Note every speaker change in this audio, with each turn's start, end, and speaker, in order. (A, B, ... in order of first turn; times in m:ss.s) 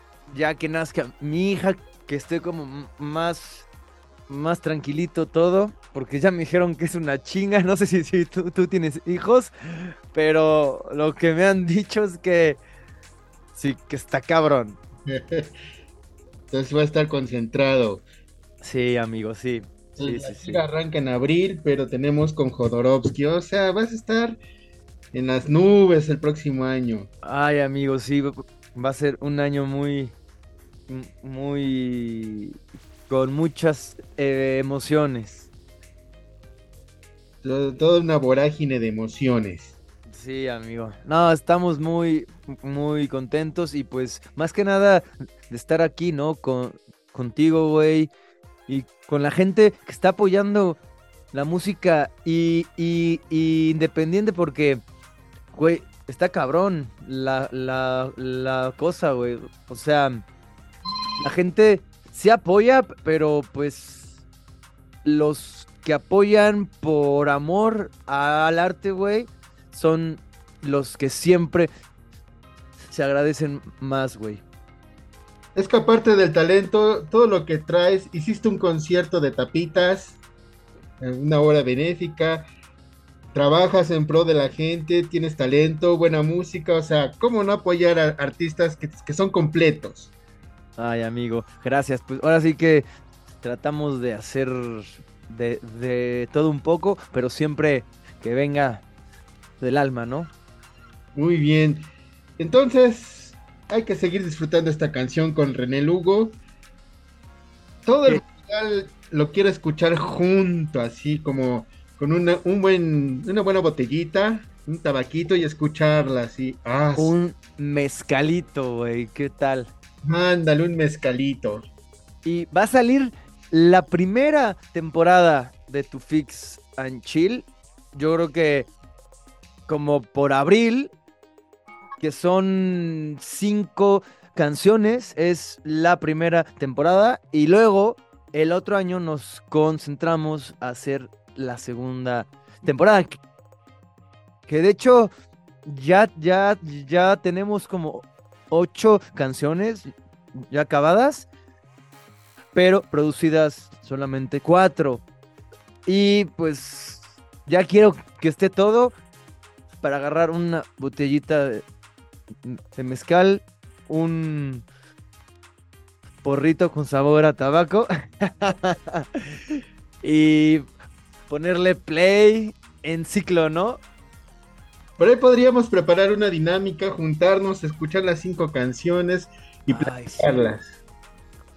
0:00.3-0:03.6 A
0:04.3-0:12.6 A
0:13.5-0:14.8 A
0:15.1-0:15.5 B
0:16.5-0:18.0 B
0:18.6-0:20.6 A
0:20.0-0:24.4 B
0:25.1-0:27.1 B
0:27.2-0:30.1 A
0:30.9-0:35.5 A
0:37.4-0:39.8 B
0:40.1-0:48.1 A
0:48.7-0:50.8 A
0:51.3-0:54.8 A
0:55.5-1:00.2 A
1:01.2-1:04.2 A
1:05.0-1:11.7 A
1:12.9-1:14.4 A
1:15.5-1:20.2 B
1:21.0-1:22.5 B
1:23.3-1:30.1 B
1:30.8-1:32.8 A
1:33.4-1:38.8 A
1:39.6-1:40.3 A
1:41.1-1:41.9 B
1:42.4-1:46.4 B
1:47.8-1:57.1 B
1:57.0-1:59.7 A
2:00.0-2:01.7 B
2:02.2-2:08.7 A
2:09.7-2:10.9 A
2:12.0-2:23.2 A
2:24.5-2:25.1 A
2:25.6-2:31.2 A
2:32.5-2:35.0 A
2:35.8-2:38.9 A
2:39.8-2:41.6 A
2:42.4-2:44.6 A
2:46.2-2:50.6 A
2:51.3-2:53.8 A
2:55.0-3:00.7 B
2:59.7-3:00.5 A